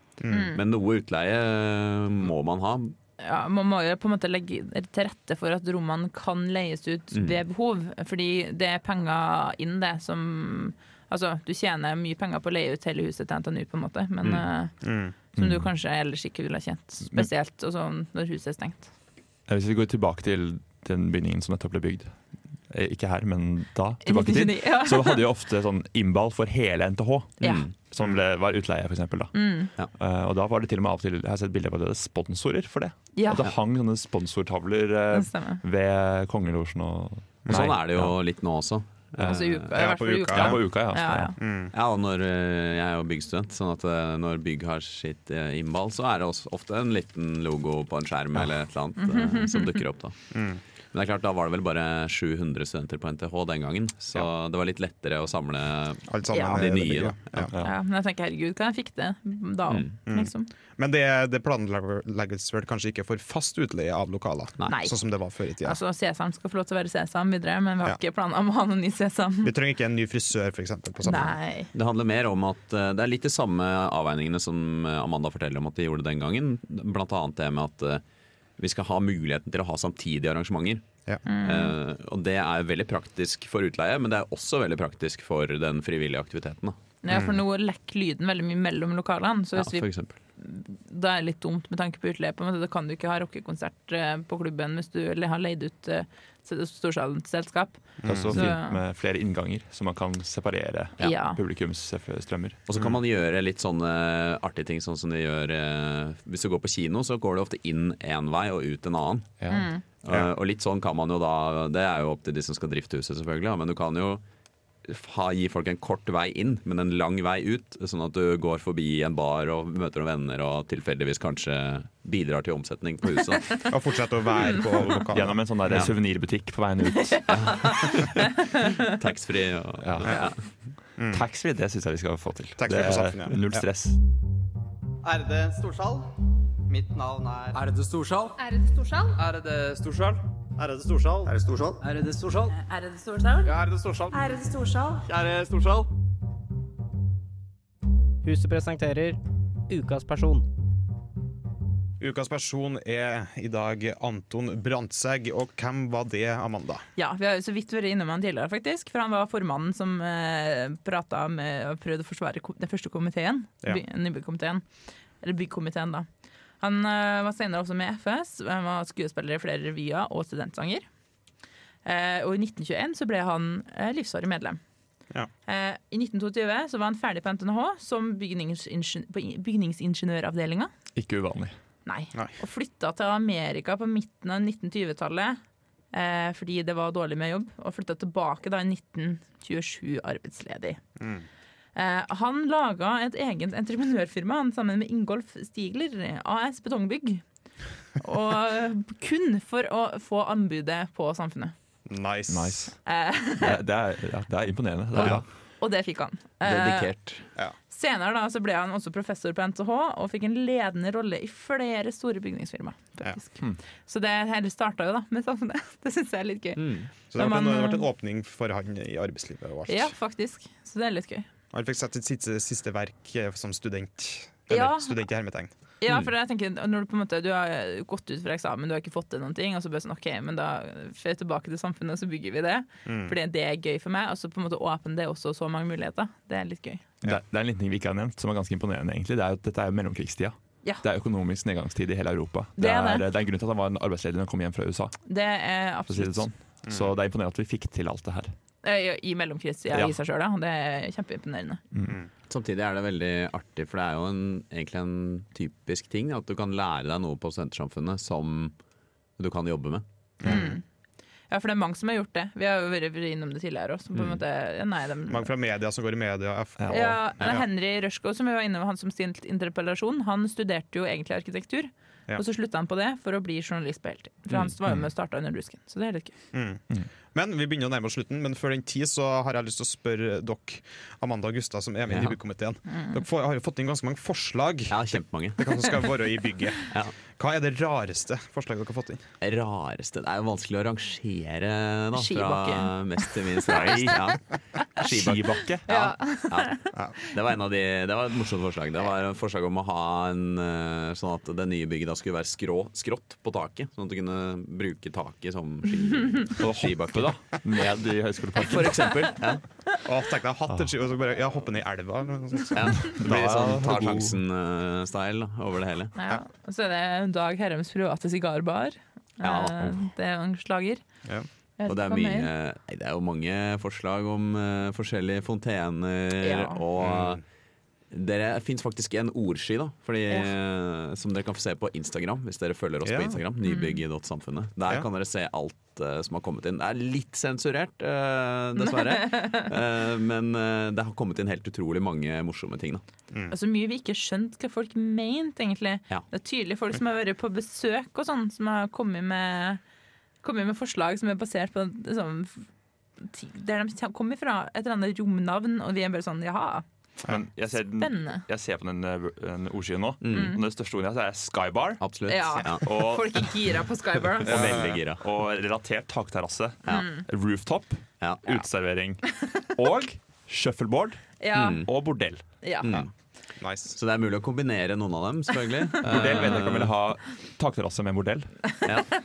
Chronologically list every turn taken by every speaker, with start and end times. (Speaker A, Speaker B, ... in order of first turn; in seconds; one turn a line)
Speaker A: 0.2-0.5
Speaker B: 0.3-0.6
Speaker C: 0.3-3.0
Speaker B: 3.2-14.8
Speaker C: 7.1-7.4
Speaker A: 14.8-15.1
Speaker B: 15.3-18.9
Speaker D: 15.3-15.7
Speaker D: 19.5-38.1
Speaker B: 24.0-25.2
Speaker B: 27.4-27.7
Speaker C: 27.4-27.7
Speaker B: 29.3-29.7
Speaker B: 33.1-33.5
Speaker B: 35.1-35.6
Speaker C: 37.5-39.7
Speaker B: 39.2-41.4
Speaker A: 39.7-40.7
Speaker D: 40.3-41.3
Speaker A: 41.4-41.7
Speaker C: 41.7-50.4
Speaker B: 49.0-49.7
Speaker A: 50.3-50.6
Speaker C: 50.9-57.5
Speaker A: 56.1-57.5
Speaker B: 56.3-56.6
Speaker B: 57.6-60.5
Speaker A: 60.0-65.8
Speaker C: 64.6-64.9
Speaker B: 64.7-65.0
Speaker B: 65.6-69.5
Speaker A: 69.4-71.4
Speaker B: 71.0-71.7
Speaker C: 71.7-78.0
Speaker C: 78.6-86.8
Speaker B: 81.2-81.7
Speaker B: 87.0-98.8
Speaker C: 89.5-90.2
Speaker A: 98.0-98.5
Speaker D: 98.0-102.6
Speaker B: 101.0-101.4
Speaker C: 102.7-109.5
Speaker D: 109.4-109.7
Speaker B: 109.5-109.8
Speaker C: 110.0-114.2
Speaker C: 114.9-123.6
Speaker A: 123.6-125.9
Speaker D: 125.1-127.4
Speaker C: 125.7-125.9
Speaker B: 127.1-128.9
Speaker C: 127.3-128.3
Speaker C: 128.8-130.4
Speaker D: 129.8-130.3
Speaker A: 130.0-130.3
Speaker A: 131.0-131.2
Speaker D: 131.1-134.0
Speaker A: 132.6-133.6
Speaker E: 135.0-136.1
Speaker E: 136.7-138.3
Speaker B: 138.4-139.2
Speaker E: 139.2-142.6
Speaker B: 142.5-143.6
Speaker E: 143.4-144.4
Speaker B: 144.1-145.1
Speaker E: 145.0-145.9
Speaker F: 148.2-150.5
Speaker A: 152.0-156.8
Speaker B: 156.9-164.6
Speaker B: 165.2-166.1
Speaker B: 166.6-170.8
Speaker B: 171.8-174.6
Speaker B: 175.5-180.7
Speaker D: 180.9-181.6
Speaker B: 181.8-185.4
Speaker B: 185.9-190.8
Speaker A: 191.0-191.2
Speaker B: 191.7-197.2
Speaker B: 197.9-201.5
Speaker A: 201.8-202.7
Speaker D: 202.3-202.8
Speaker B: 202.8-203.6
Speaker D: 203.3-205.2
Speaker B: 205.6-206.9
Speaker C: 206.4-207.2
Speaker B: 207.7-217.8
Speaker C: 216.6-216.9
Speaker A: 217.1-219.9
Speaker B: 219.7-221.3
Speaker A: 221.5-225.5
Speaker B: 224.5-225.1
Speaker B: 225.8-236.8
Speaker A: 232.8-233.1
Speaker D: 237.0-245.0
Speaker B: 242.6-243.0
Speaker B: 245.1-246.2
Speaker D: 245.9-248.3
Speaker B: 248.6-251.6
Speaker C: 252.3-258.5
Speaker C: 259.2-259.8
Speaker A: 260.2-260.6
Speaker B: 260.2-260.6
Speaker B: 261.3-265.3
Speaker C: 263.9-264.2
Speaker A: 265.1-267.4
Speaker D: 266.6-267.0
Speaker B: 266.7-276.1
Speaker A: 276.3-276.6
Speaker A: 277.1-289.0
Speaker C: 281.9-282.1
Speaker B: 282.7-283.0
Speaker C: 284.7-285.8
Speaker C: 289.2-294.2
Speaker B: 291.9-293.6
Speaker D: 293.5-294.0
Speaker C: 294.7-295.5
Speaker D: 294.8-296.0
Speaker B: 295.7-296.6
Speaker C: 296.3-307.2
Speaker D: 306.4-309.1
Speaker C: 308.4-309.4
Speaker A: 309.8-312.9
Speaker C: 312.5-315.9
Speaker D: 312.9-314.1
Speaker B: 315.9-320.8
Speaker C: 319.2-319.7
Speaker B: 321.6-322.3
Speaker C: 321.7-327.2
Speaker B: 326.2-326.6
Speaker A: 326.8-327.2
Speaker C: 327.9-342.8
Speaker A: 332.8-333.2
Speaker B: 333.4-333.8
Speaker B: 338.6-339.5
Speaker B: 343.3-349.6
Speaker B: 350.2-352.5
Speaker B: 353.0-356.6
Speaker D: 357.0-363.3
Speaker B: 357.6-358.2
Speaker C: 360.0-360.4
Speaker B: 360.1-360.4
Speaker C: 361.8-362.7
Speaker B: 362.1-364.5
Speaker C: 364.2-365.0
Speaker D: 364.2-372.2
Speaker C: 366.6-367.0
Speaker B: 366.7-367.0
Speaker C: 368.0-368.4
Speaker B: 371.2-371.7
Speaker C: 371.3-371.7
Speaker B: 372.4-372.8
Speaker C: 372.6-372.9
Speaker A: 373.4-373.7
Speaker C: 373.7-376.7
Speaker D: 375.8-378.5
Speaker C: 378.6-378.9